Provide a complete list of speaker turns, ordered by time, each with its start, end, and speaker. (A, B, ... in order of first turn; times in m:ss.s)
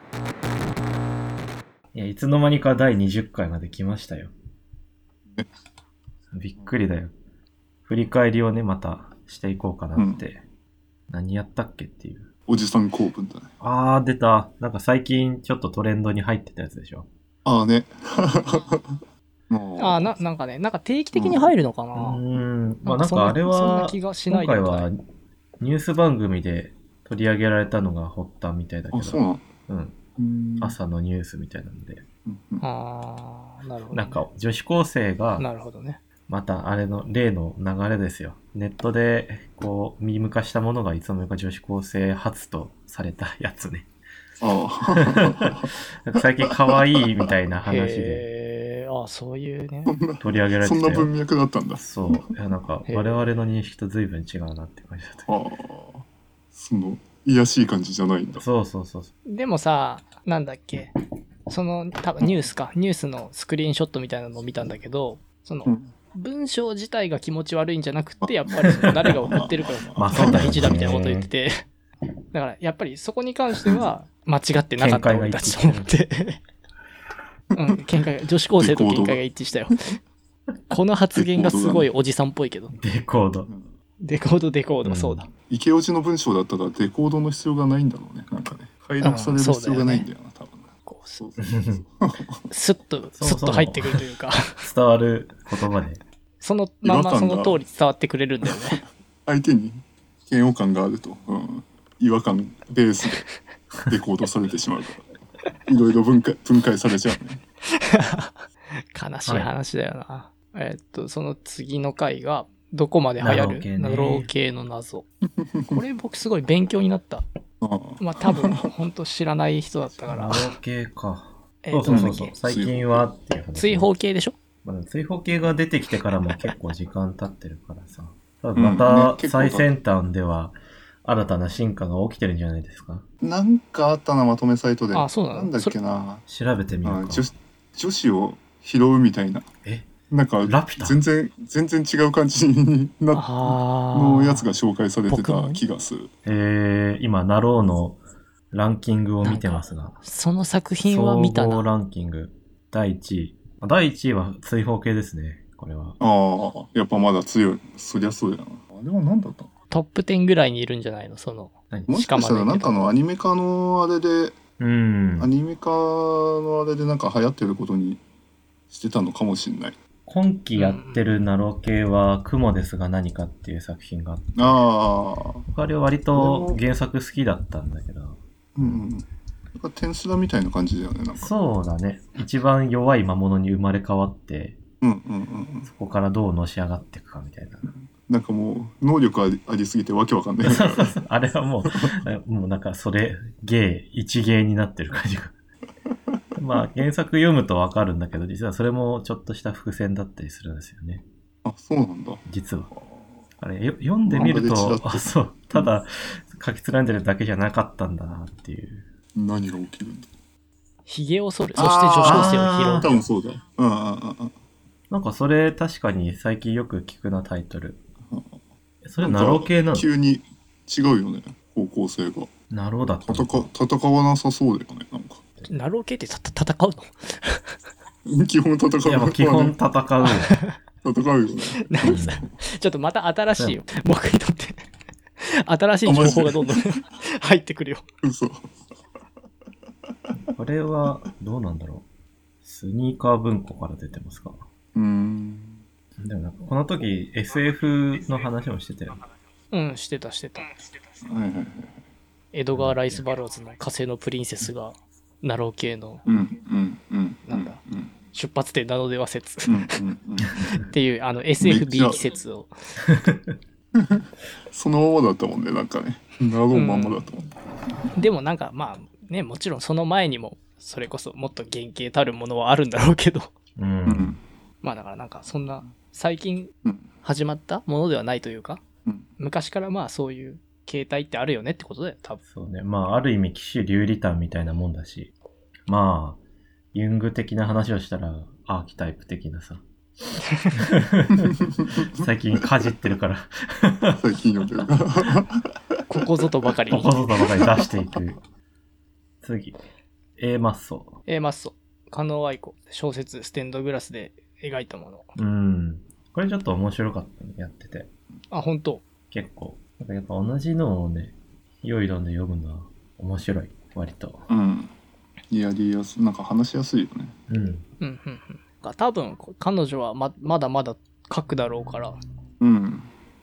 0:01.9-0:04.3 A
0:06.3-0:07.1 A
0:07.9-0:10.4 A
0:10.0-0:10.2 B
0:11.1-0:12.3 A
0:12.5-0:13.5 B
0:13.6-0:17.1 A
0:17.4-0:20.2 B
0:19.8-0:22.2 C
0:21.1-0:21.5 B
0:22.0-0:25.0 A
0:22.8-0:24.9 C
0:25.6-0:30.0 A
0:28.9-0:29.5 B
0:30.2-0:30.8 B
0:30.6-0:32.0 A
0:32.3-0:32.7 B
0:32.6-0:34.2 C
0:33.9-0:35.5 A
0:35.4-0:36.0 C
0:36.3-0:43.9 A
0:44.4-0:45.7 B
0:45.2-0:48.3 A
0:46.5-0:46.9 B
0:47.6-0:50.0 C
0:49.9-0:52.2 B
0:50.2-0:51.1 A
0:51.8-0:55.4 A
0:52.9-0:53.2 C
0:55.3-0:58.4 B
0:58.4-0:59.1 A
0:59.3-1:00.9 C
1:01.5-1:11.6 C
1:05.7-1:05.9 B
1:08.2-1:10.8 B
1:10.0-1:11.3 A
1:12.3-1:16.4 C
1:14.8-1:15.9 A
1:17.5-1:20.0 C
1:18.6-1:19.2 B
1:20.7-1:22.8 C
1:21.2-1:21.9 B
1:22.7-1:23.5 A
1:24.0-1:25.3 C
1:24.8-1:25.3 A
1:25.5-1:30.7 B
1:29.0-1:30.1 C
1:30.9-1:31.2 C
1:31.2-1:32.5 B
1:31.5-1:31.8 A
1:32.5-1:34.6 C
1:33.1-1:34.0 A
1:34.6-1:36.0 A
1:36.4-1:38.8 C
1:36.8-1:37.6 B
1:38.5-1:43.2 B
1:43.8-1:45.1 B
1:45.7-1:47.4 B
1:47.8-1:48.4 C
1:48.9-1:55.0 C
1:53.2-1:54.3 A
1:55.4-1:55.8 B
1:55.7-1:57.2 C
1:57.6-1:58.7 B
1:58.0-2:00.6 C
2:00.1-2:03.9 A
2:01.6-2:02.3 C
2:01.9-2:03.1 B
2:03.6-2:04.4 C
2:04.6-2:13.0 A
2:08.6-2:09.7 B
2:13.2-2:16.2 B
2:14.9-2:15.8 C
2:16.3-2:17.3 A
2:16.8-2:19.5 B
2:19.6-2:19.9 A
2:20.1-2:26.1 B
2:20.4-2:21.0 A
2:23.1-2:24.4 C
2:25.1-2:25.6 C
2:26.2-2:28.0 A
2:28.5-2:30.0 A
2:29.2-2:31.7 C
2:30.8-2:36.0 A
2:36.0-2:39.5 B
2:39.7-2:43.0 C
2:41.9-2:44.4 B
2:44.6-2:45.3 A
2:45.2-2:48.0 B
2:48.7-2:49.8 B
2:50.1-2:54.6 A
2:50.6-2:51.1 C
2:54.4-2:55.5 B
2:55.5-2:58.8 A
2:56.1-2:56.6 B
2:58.6-2:59.1 B
2:59.6-3:01.3 B
3:01.2-3:04.6 A
3:04.8-3:05.7 B
3:05.6-3:07.7 A
3:07.7-3:11.0 B
3:10.4-3:15.3 A
3:16.4-3:21.0 A
3:21.4-3:22.2 B
3:22.3-3:22.7 A
3:23.4-3:28.9 A
3:24.0-3:25.7 B
3:29.2-3:30.1 B
3:30.9-3:33.0 C
3:31.6-3:34.3 B
3:32.0-3:32.9 A
3:34.9-3:37.8 A
3:38.1-3:38.4 B
3:38.8-3:39.9 A
3:39.0-3:42.3 B
3:42.5-3:43.5 A
3:43.0-3:45.2 B
3:45.5-3:47.6 C
3:48.1-3:49.6 B
3:48.8-3:50.4 A
3:50.1-3:50.5 C
3:50.8-3:52.1 B
3:51.7-3:54.6 C
3:51.8-3:52.2 A
3:53.4-3:53.6 A
3:55.2-3:57.8 C
3:55.9-3:56.6 B
3:58.0-3:58.5 B
4:00.2-4:01.9 A
4:02.4-4:04.4 A
4:04.8-4:05.6 B
4:06.0-4:09.0 A
4:09.5-4:10.7 C
4:11.0-4:11.8 B
4:12.3-4:16.0 C
4:12.5-4:13.1 A
4:16.1-4:17.9 B
4:17.3-4:17.6 C
4:18.1-4:19.8 C
4:19.5-4:20.8 B
4:20.7-4:22.8 C
4:21.4-4:22.1 B
4:23.0-4:23.3 A
4:23.8-4:27.3 B
4:26.5-4:27.0 C
4:28.0-4:33.3 C
4:33.6-4:34.2 A
4:33.9-4:34.2 B
4:34.6-4:36.5 C
4:37.0-4:38.6 C
4:39.2-4:42.2 C
4:42.2-4:45.1 A
4:45.7-4:46.2 A
4:46.7-4:49.6 A
4:50.5-4:54.0 A
4:54.0-4:55.5 B
4:55.9-4:56.9 C
4:56.7-4:58.2 A
4:57.4-4:57.7 B
4:59.2-4:59.6 A
5:00.2-5:01.0 A
5:01.1-5:05.1 C
5:05.2-5:07.9 A
5:08.3-5:08.8 C
5:09.1-5:14.2 A
5:14.3-5:14.7 B
5:15.3-5:17.2 B
5:17.3-5:17.7 A
5:17.8-5:22.0 C
5:22.4-5:22.9 B